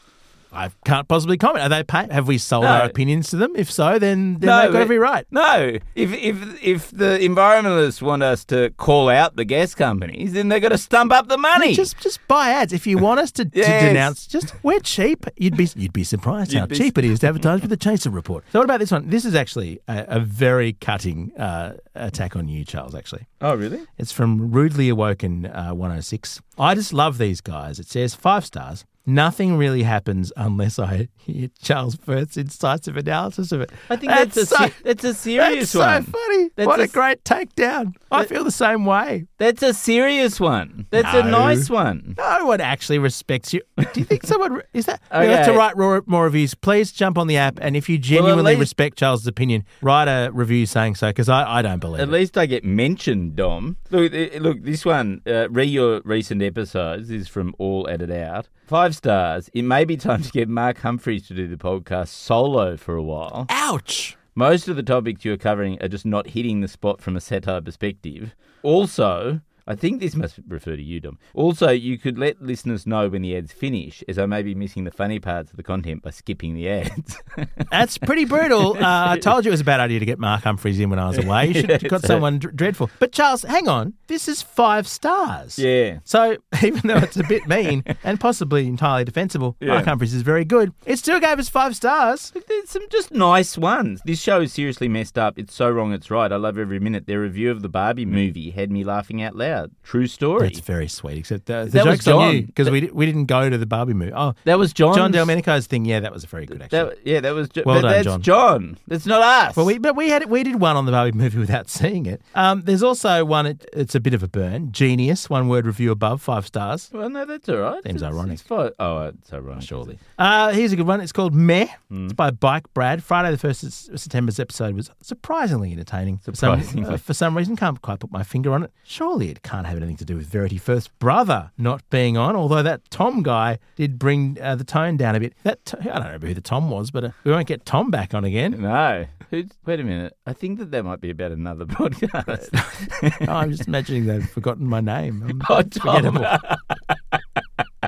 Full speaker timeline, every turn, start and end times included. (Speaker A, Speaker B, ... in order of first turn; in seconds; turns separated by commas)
Speaker A: 0.5-5.3, Speaker B: 2.6-3.0, Speaker B: 4.4-11.9, Speaker A: 11.6-23.3, Speaker B: 13.5-14.1, Speaker B: 16.5-17.4, Speaker B: 23.4-23.9, Speaker A: 24.0-34.8, Speaker B: 33.9-37.0, Speaker A: 35.3-39.3, Speaker B: 39.4-42.2, Speaker A: 41.0-52.1, Speaker B: 45.1-45.6, Speaker B: 48.1-48.7, Speaker B: 52.0-63.5, Speaker A: 63.5-64.2, Speaker B: 64.3-77.7, Speaker A: 77.7-92.3, Speaker B: 78.6-79.1, Speaker B: 81.1-82.2, Speaker B: 85.6-86.0, Speaker B: 89.6-89.9, Speaker B: 92.4-100.6, Speaker A: 100.4-106.9, Speaker B: 101.7-102.7, Speaker B: 104.5-105.3, Speaker B: 106.5-109.7, Speaker A: 107.6-108.3, Speaker A: 109.5-116.9, Speaker B: 116.9-119.9, Speaker A: 117.8-118.4, Speaker A: 119.6-138.6, Speaker B: 121.9-122.2, Speaker B: 126.3-127.0, Speaker B: 138.5-143.4, Speaker A: 142.3-146.4, Speaker B: 145.3-147.2